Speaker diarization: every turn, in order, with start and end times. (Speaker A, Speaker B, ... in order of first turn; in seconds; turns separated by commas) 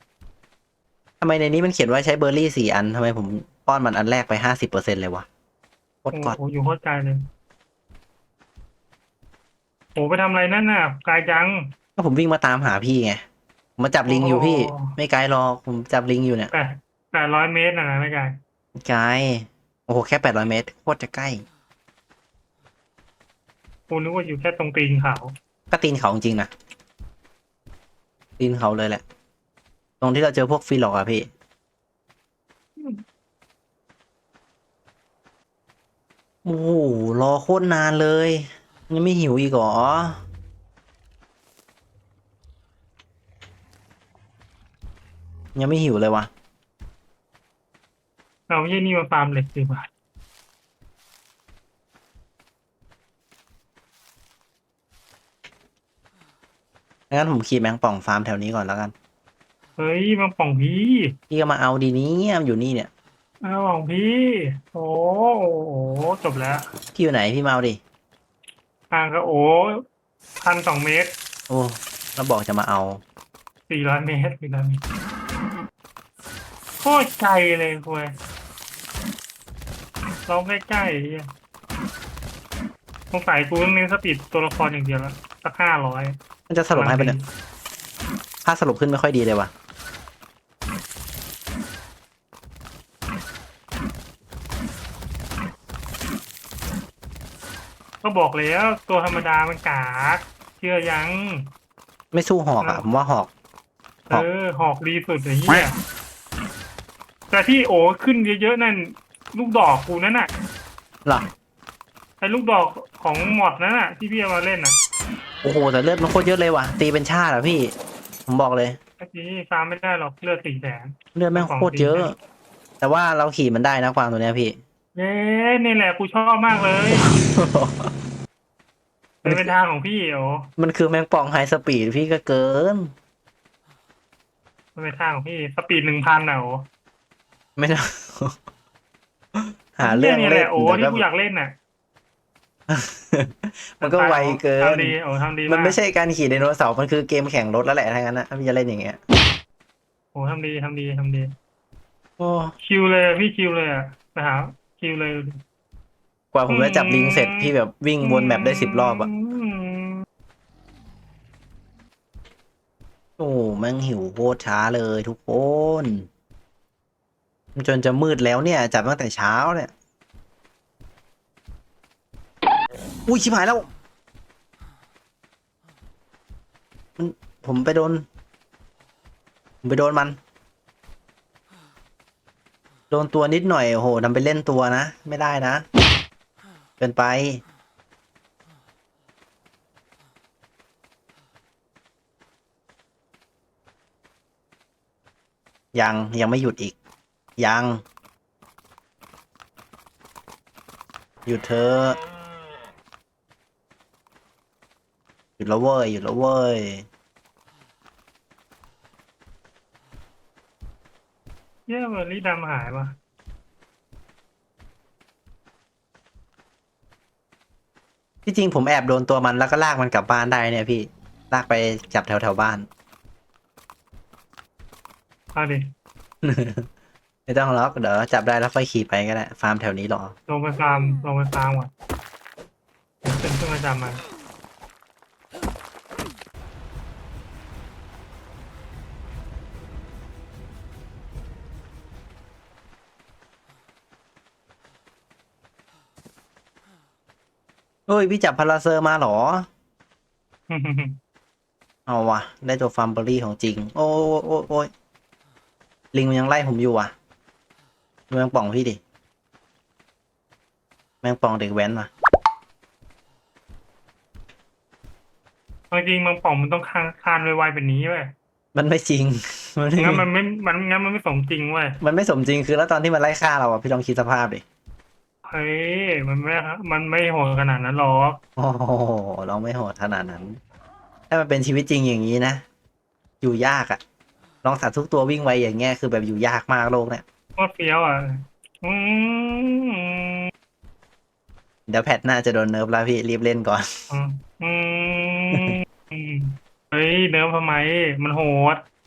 Speaker A: 1.2-5.3, Speaker A: 6.0-6.4, Speaker B: 6.1-7.2, Speaker B: 9.9-11.7, Speaker A: 12.0-13.2, Speaker A: 13.8-16.5, Speaker B: 14.1-15.0, Speaker B: 16.5-18.4, Speaker A: 18.8-21.4, Speaker B: 23.9-25.3, Speaker A: 25.7-26.5, Speaker A: 28.4-29.0, Speaker A: 30.0-31.3, Speaker A: 36.5-40.2, Speaker A: 45.6-46.3, Speaker B: 48.5-49.9, Speaker A: 57.1-58.9, Speaker B: 59.8-61.2, Speaker A: 61.3-62.9, Speaker B: 63.4-66.7, Speaker A: 67.0-67.8, Speaker B: 68.9-69.8, Speaker B: 70.4-71.1, Speaker A: 71.5-73.0, Speaker B: 73.7-74.8, Speaker B: 76.8-78.2, Speaker B: 80.3-81.3, Speaker B: 83.1-86.2, Speaker A: 86.5-87.2, Speaker B: 86.7-87.3, Speaker A: 88.5-89.5, Speaker B: 98.0-101.5, Speaker A: 102.1-103.3, Speaker B: 104.1-105.8, Speaker B: 107.3-110.3, Speaker B: 112.2-114.8, Speaker A: 115.4-117.7, Speaker A: 118.3-118.8, Speaker B: 119.0-122.1, Speaker A: 121.2-122.2, Speaker A: 122.8-124.6, Speaker B: 125.0-127.2, Speaker A: 127.0-127.9, Speaker B: 129.2-130.5, Speaker A: 129.2-129.5, Speaker A: 130.6-132.9, Speaker B: 134.8-136.7, Speaker A: 137.6-138.4, Speaker A: 139.3-141.0, Speaker B: 139.8-141.5, Speaker A: 142.7-144.9, Speaker B: 143.8-145.8, Speaker A: 145.5-149.0, Speaker B: 150.1-151.3, Speaker A: 152.2-152.5, Speaker B: 152.6-155.4, Speaker A: 156.3-159.1, Speaker B: 156.5-160.0, Speaker A: 163.2-166.1, Speaker A: 167.6-169.7, Speaker A: 173.1-173.7, Speaker A: 177.0-178.1, Speaker A: 179.6-180.2, Speaker A: 182.9-185.7, Speaker A: 186.8-187.4, Speaker A: 195.7-196.7, Speaker A: 197.4-197.8, Speaker A: 201.3-202.0, Speaker A: 205.4-206.9, Speaker B: 211.7-212.9, Speaker A: 218.3-222.7, Speaker B: 225.3-225.7, Speaker A: 226.2-226.7, Speaker A: 227.3-230.1, Speaker B: 230.3-231.7, Speaker B: 233.0-234.0, Speaker A: 247.9-249.5, Speaker B: 250.5-251.0, Speaker A: 251.9-254.7, Speaker A: 255.9-256.9, Speaker A: 258.1-258.8, Speaker A: 261.0-261.9, Speaker B: 265.7-268.1, Speaker A: 268.5-270.1, Speaker B: 269.8-271.8, Speaker A: 271.8-274.4, Speaker B: 275.2-278.2, Speaker A: 278.4-280.4, Speaker A: 281.1-282.4, Speaker A: 283.2-283.8, Speaker A: 284.4-287.0, Speaker B: 287.4-290.3, Speaker A: 291.7-293.7, Speaker B: 293.9-298.7